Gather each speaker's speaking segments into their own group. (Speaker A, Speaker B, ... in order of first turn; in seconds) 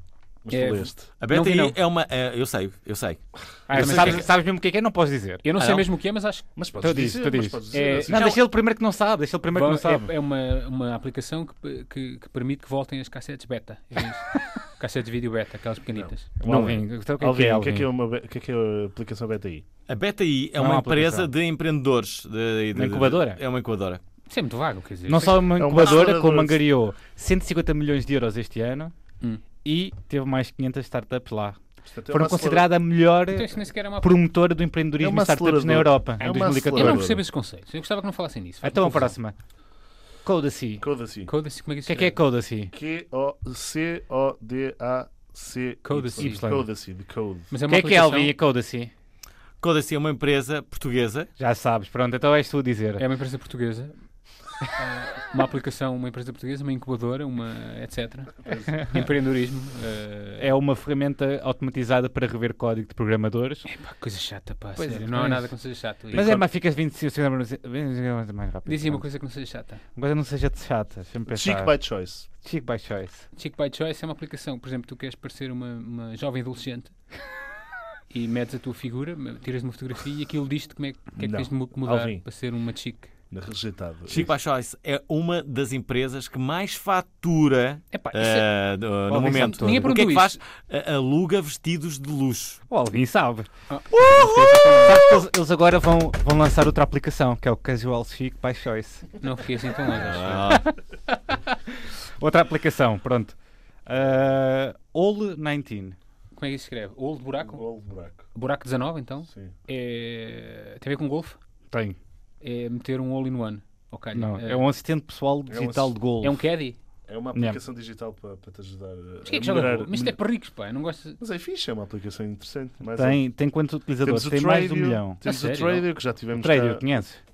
Speaker A: 0.4-1.1, 6.5-8.3, 15.9-19.6, 25.6-26.6, 31.8-32.7, 35.0-37.2, 40.8-41.3, 42.7-47.5, 58.4-58.7, 66.1-66.5, 71.3-72.3, 81.2-82.2, 83.3-84.3, 107.4-108.3, 109.3-109.5, 115.5-116.0, 117.1-120.2, 121.2-123.2, 124.0-126.8
Speaker B: 0.5-1.8, 3.7-4.3, 5.4-6.5, 7.7-8.4, 9.5-16.3, 24.3-25.5, 33.3-34.2, 36.7-39.1, 41.3-42.1, 45.8-46.4, 47.5-48.3, 53.0-53.9, 54.7-60.5, 63.6-66.3, 68.7-69.8, 73.3-76.9, 78.1-83.1, 87.9-88.5, 89.5-90.4, 93.7-95.1, 99.2-100.6, 106.3-107.6, 108.3-111.4, 112.4-114.6, 116.2-116.8, 119.2-121.2, 125.2-125.8
Speaker C: 1.2-4.2, 5.6-5.9, 19.9-24.0, 49.6-51.3, 84.1-92.6, 93.9-94.9, 99.9-100.7
Speaker D: 3.7-5.4, 6.8-10.1, 16.4-17.9, 20.6-21.3, 22.7-23.4, 25.1-28.9, 29.6-37.0, 38.6-39.3, 40.2-40.9, 41.9-42.7, 46.2-46.7, 47.7-48.9, 51.4-53.0, 60.4-63.7, 64.8-65.5, 66.1-69.0, 69.9-71.8, 72.4-73.3, 89.1-89.9, 92.7-93.5, 94.8-99.1, 100.5-106.0, 111.7-112.0, 114.1-116.4, 117.3-117.6, 122.9-125.2, 126.3-127.2